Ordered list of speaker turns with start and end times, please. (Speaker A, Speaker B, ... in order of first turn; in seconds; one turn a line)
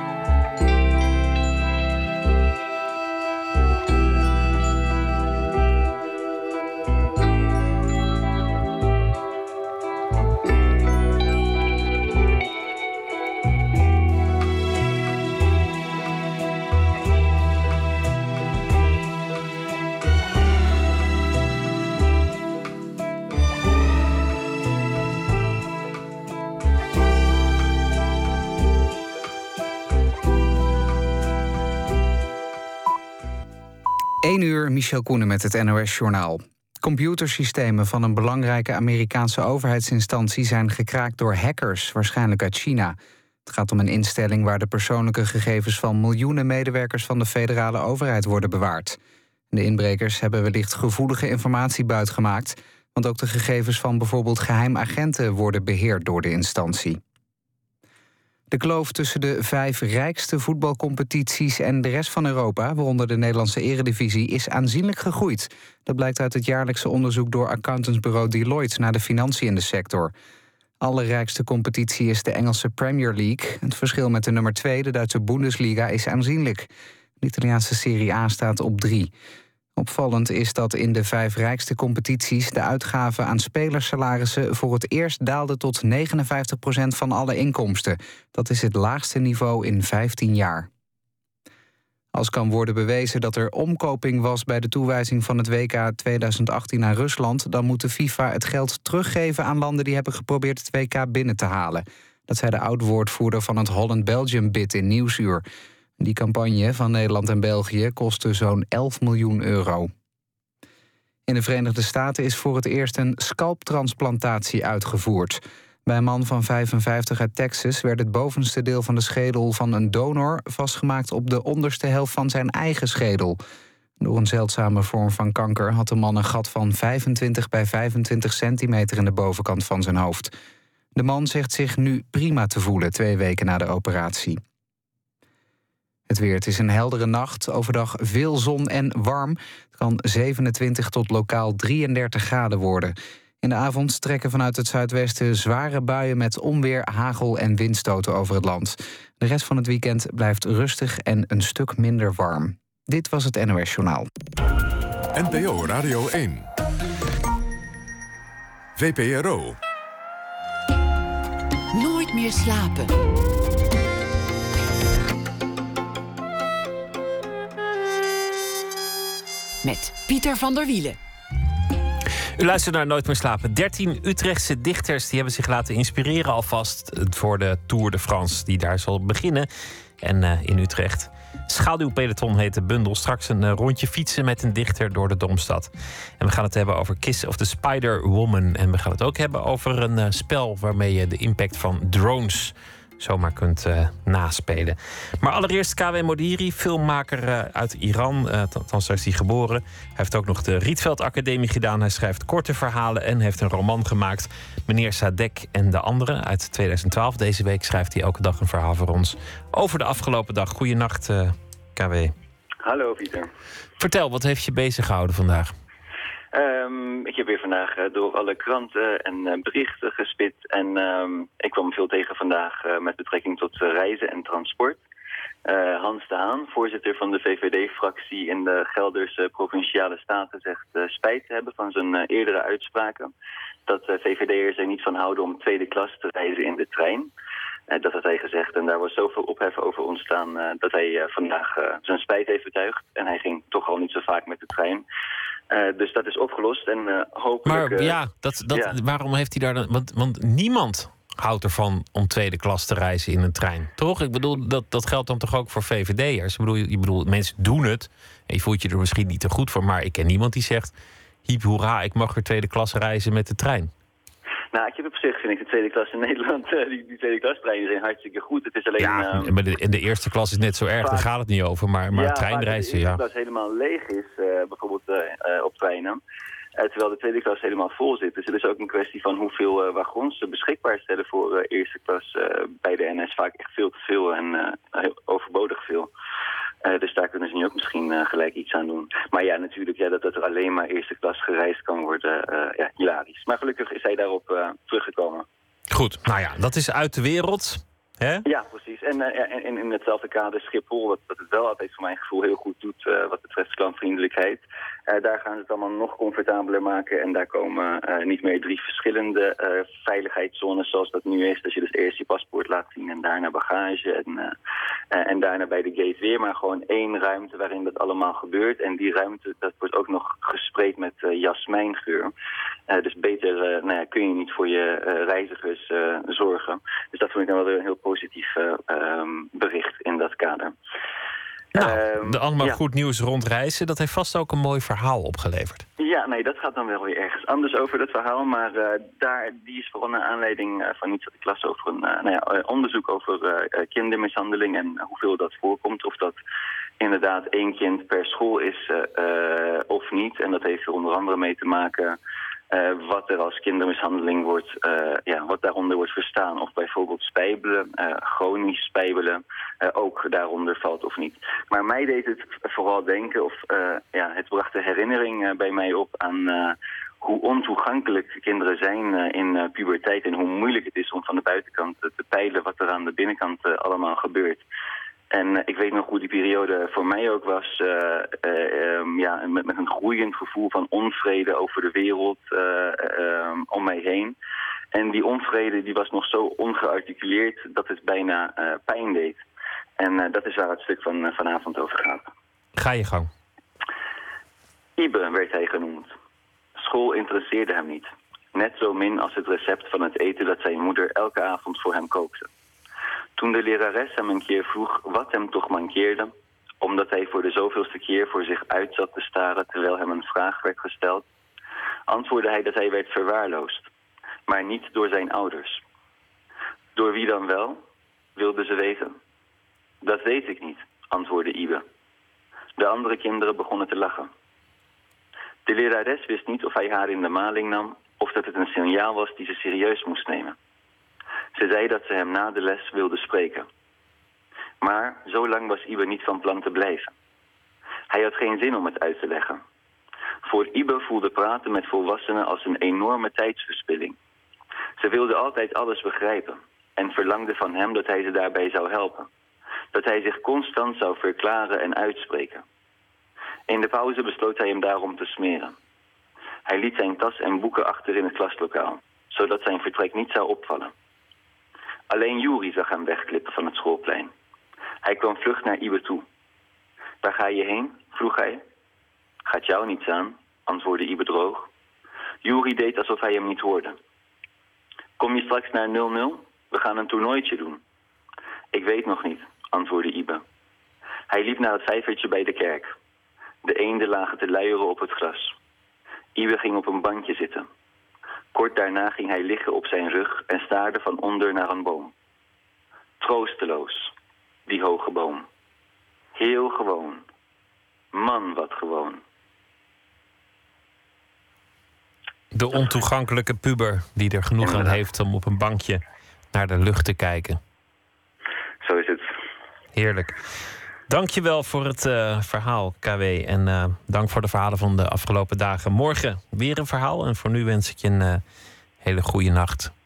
Speaker A: 34.2-49.0
Speaker A: 49.5-57.0
Speaker A: 58.5-70.1
Speaker A: 70.8-76.7
Speaker A: 77.2-79.1
Speaker A: 79.8-90.7
Speaker A: 92.1-105.4
Speaker A: 106.0-109.9
Speaker A: 111.3-123.4
Speaker A: 124.0-130.3
Speaker A: 130.9-134.4
Speaker A: 136.1-154.1
Speaker B: 155.1-156.5
Speaker B: 158.8-159.6
Speaker C: 161.7-163.0
Speaker C: 169.6-171.0
Speaker D: 172.4-179.5
Speaker D: 180.0-185.7
Speaker D: 186.2-212.1
Speaker E: 212.6-213.3
Speaker D: 213.8-215.5
Speaker E: 216.3-224.8
Speaker E: 225.4-233.1
Speaker E: 233.7-237.1
Speaker E: 237.7-244.8
Speaker E: 245.5-248.0
Speaker D: 247.4-260.7
Speaker E: 248.5-248.8
Speaker D: 261.2-263.7
Speaker E: 264.5-269.3
Speaker D: 268.8-273.0
Speaker E: 270.8-271.1
Speaker E: 271.9-276.0
Speaker E: 276.6-285.9
Speaker E: 286.6-295.2
Speaker D: 295.7-298.2
Speaker E: 298.2-314.3
Speaker E: 314.9-322.1
Speaker E: 322.7-330.5
Speaker D: 331.5-335.6
Speaker E: 331.6-332.6
Speaker E: 335.8-346.2
Speaker E: 346.8-352.0
Speaker E: 352.5-374.4
Speaker E: 375.1-384.1
Speaker E: 384.7-389.2
Speaker E: 389.8-392.1
Speaker D: 392.6-393.1
Speaker E: 394.8-395.9
Speaker E: 396.6-402.3
Speaker E: 403.2-411.1
Speaker E: 411.9-413.6
Speaker E: 414.3-415.6
Speaker E: 416.8-417.6
Speaker E: 418.2-418.9
Speaker E: 419.8-421.6
Speaker E: 422.6-424.1
Speaker E: 425.5-430.4
Speaker E: 431.4-433.5
Speaker E: 434.6-436.9
Speaker E: 437.9-439.4
Speaker E: 440.3-443.9
Speaker E: 444.8-449.1
Speaker E: 449.7-452.4
Speaker E: 453.5-455.5
Speaker E: 456.4-460.7
Speaker E: 461.9-464.1
Speaker E: 464.8-466.0
Speaker E: 467.0-468.4
Speaker E: 469.3-471.5
Speaker E: 472.2-473.8
Speaker E: 475.0-477.6
Speaker E: 478.5-480.2
Speaker E: 481.1-482.7
Speaker E: 483.4-485.3
Speaker E: 486.1-487.5
Speaker E: 488.3-491.9
Speaker E: 493.0-493.9
Speaker E: 494.5-495.2
Speaker E: 496.2-497.0
Speaker E: 497.9-499.0
Speaker D: 502.3-505.8
Speaker E: 504.5-504.7
Speaker D: 506.3-507.4
Speaker E: 508.6-509.0
Speaker D: 509.7-510.2
Speaker D: 510.9-518.2
Speaker D: 518.8-519.7